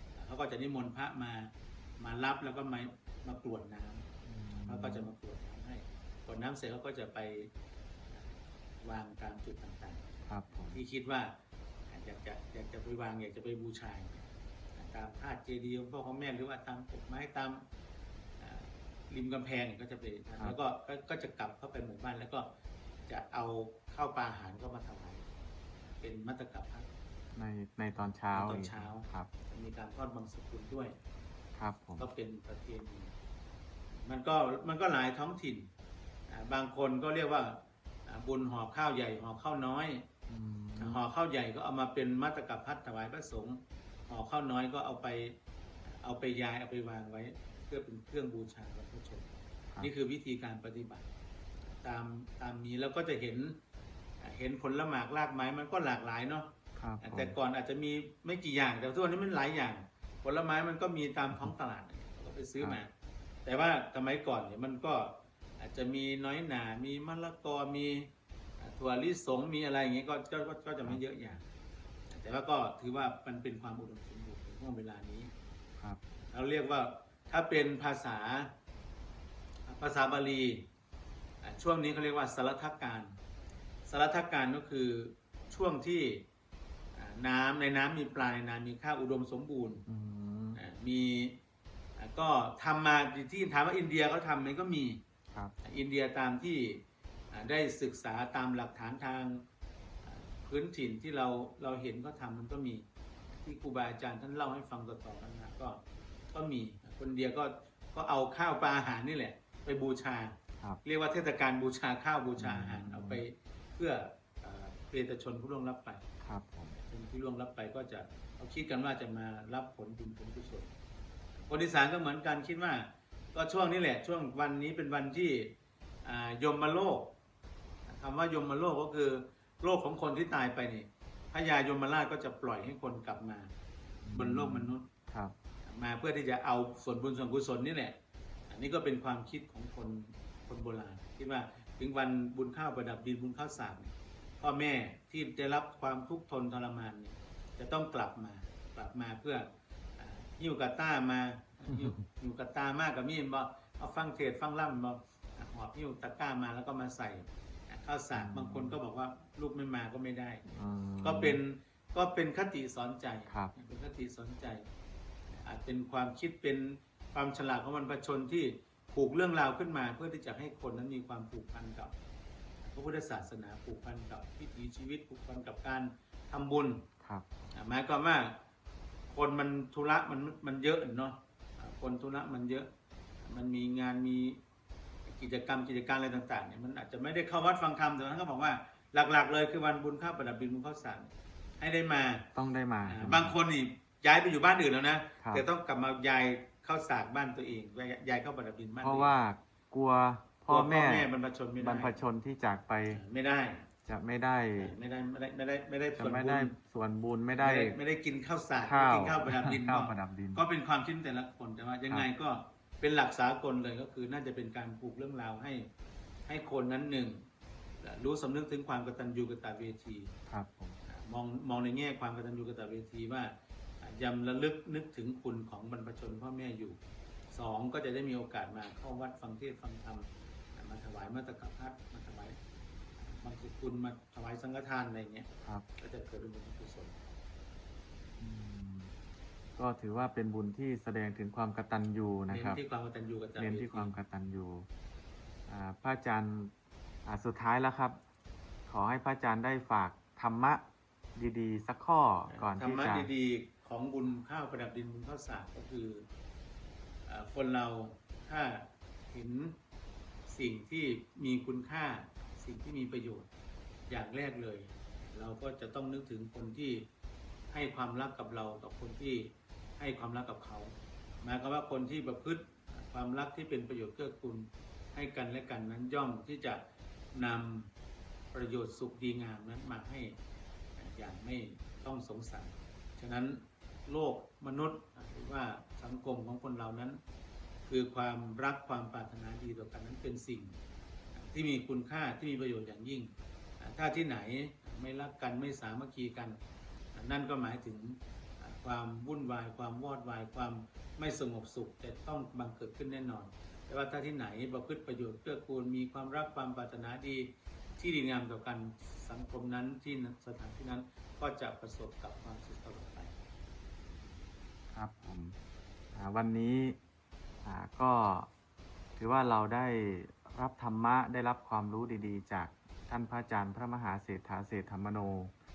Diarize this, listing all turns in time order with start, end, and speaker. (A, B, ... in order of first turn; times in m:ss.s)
0:00.2-0:04.1 A
0:04.2-0:05.0 B
0:04.6-0:07.5 A
0:08.1-0:10.0 A
0:10.2-0:10.8 B
0:10.7-0:11.3 A
0:11.9-0:17.6 A
0:18.4-0:22.5 A
0:23.1-0:25.3 A
0:26.0-0:26.9 A
0:27.4-0:29.3 B
0:28.3-0:31.0 A
0:31.6-0:32.0 B
0:32.0-0:33.1 A
0:34.0-0:35.7 A
0:36.3-0:40.1 A
0:40.3-0:41.0 B
0:40.8-0:51.1 A
0:51.8-0:53.6 A
0:54.2-1:02.9 A
0:56.8-0:57.3 B
1:03.4-1:11.4 A
1:12.1-1:15.3 A
1:16.3-1:18.5 A
1:19.7-1:20.6 A
1:21.4-1:23.2 A
1:23.9-1:26.2 A
1:27.0-1:29.8 A
1:29.9-1:30.6 B
1:30.6-1:31.4 A
1:32.0-1:35.0 A
1:35.6-1:39.4 A
1:40.0-1:45.8 A
1:46.3-1:56.0 A
1:52.4-1:53.2 B
1:56.2-1:56.8 B
1:56.8-2:00.7 A
2:01.4-2:07.1 A
2:07.9-2:13.5 A
2:14.0-2:15.4 B
2:14.1-2:14.9 A
2:15.6-2:18.0 A
2:18.5-2:29.5 A
2:30.0-2:40.4 A
2:38.1-2:38.8 B
2:40.5-2:41.4 B
2:41.0-2:44.6 A
2:45.3-2:51.9 A
2:52.6-2:56.8 A
2:57.0-2:57.3 B
2:57.5-2:58.4 A
2:59.1-3:02.7 A
3:03.2-3:04.4 A
3:05.1-3:12.3 A
3:12.4-3:13.4 B
3:12.8-3:19.1 A
3:18.8-3:23.0 B
3:20.5-3:22.0 A
3:22.9-3:23.7 A
3:23.8-3:24.7 B
3:24.6-3:26.5 A
3:26.0-3:27.8 B
3:27.4-3:35.7 A
3:28.6-3:30.4 B
3:36.3-3:37.2 A
3:37.8-3:40.2 A
3:40.3-3:40.8 B
3:40.9-3:46.8 A
3:47.3-3:52.4 A
3:53.0-3:55.3 A
3:55.8-3:57.2 A
3:58.2-3:58.9 B
3:59.6-4:02.6 B
4:02.3-4:04.0 A
4:03.4-4:04.7 B
4:05.5-4:06.5 B
4:07.0-4:08.0 B
4:08.7-4:10.6 B
4:11.2-4:13.1 B
4:12.3-4:16.1 A
4:17.1-4:19.6 A
4:20.3-4:23.3 A
4:23.9-4:26.9 A
4:27.5-4:36.6 A
4:37.1-4:37.7 A
4:38.3-4:40.2 A
4:40.8-4:47.0 A
4:47.7-4:50.6 A
4:51.1-4:56.4 A
4:56.9-5:13.2 A
5:14.7-5:15.4 B
5:16.0-5:16.8 B
5:17.4-5:18.3 B
5:19.0-5:25.3 B